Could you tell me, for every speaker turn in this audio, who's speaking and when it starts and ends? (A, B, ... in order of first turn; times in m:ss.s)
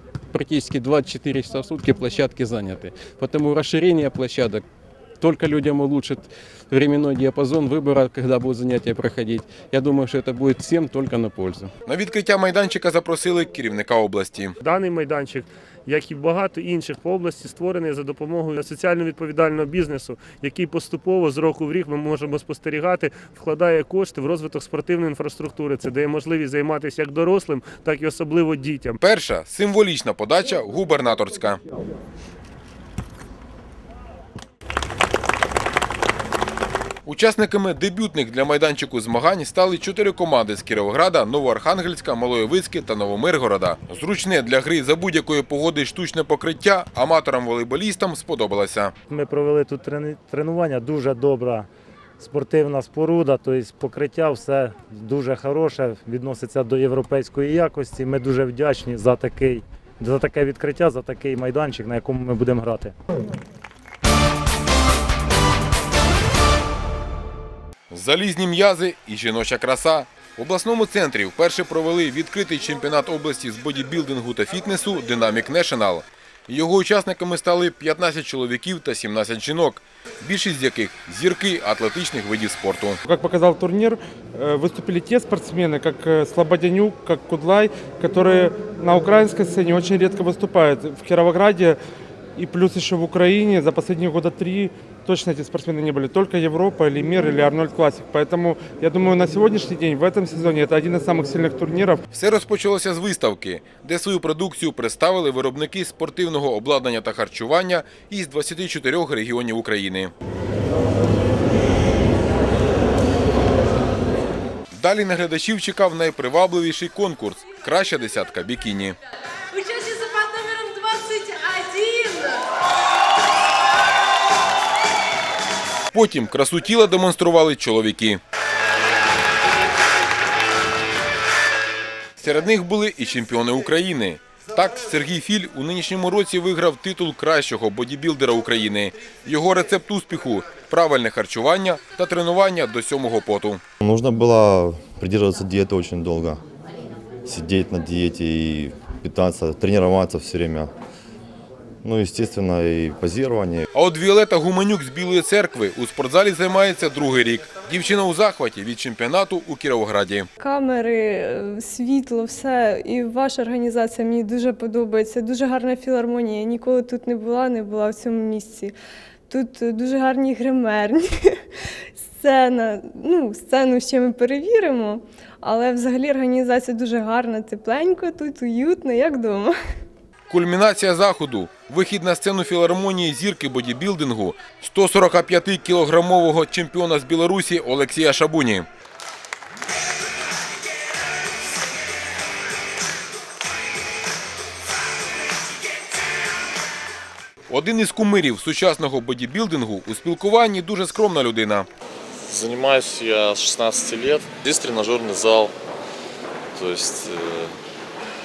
0:00.3-0:04.6 A
0:05.2-0:11.7 A
0:11.8-0:14.6 B
0:14.6-0:29.0 C
0:29.0-0:31.6 B
0:37.0-0:48.9 B
0:49.1-0:51.7 D
0:52.2-1:02.9 D
1:07.9-1:23.0 B
1:23.0-1:31.8 E
1:32.4-1:42.0 E
1:42.1-1:50.1 B
1:54.7-1:59.0 B
2:05.9-2:08.2 B
2:12.2-2:23.6 B
2:23.8-2:26.4 F
2:27.2-2:30.7 F
2:31.8-2:33.7 F
2:33.7-2:40.3 B
2:40.4-2:48.7 G
2:49.3-2:59.5 G
3:00.3-3:08.7 B
3:17.5-3:21.7 B
3:22.2-3:25.5 H
3:26.5-3:27.6 H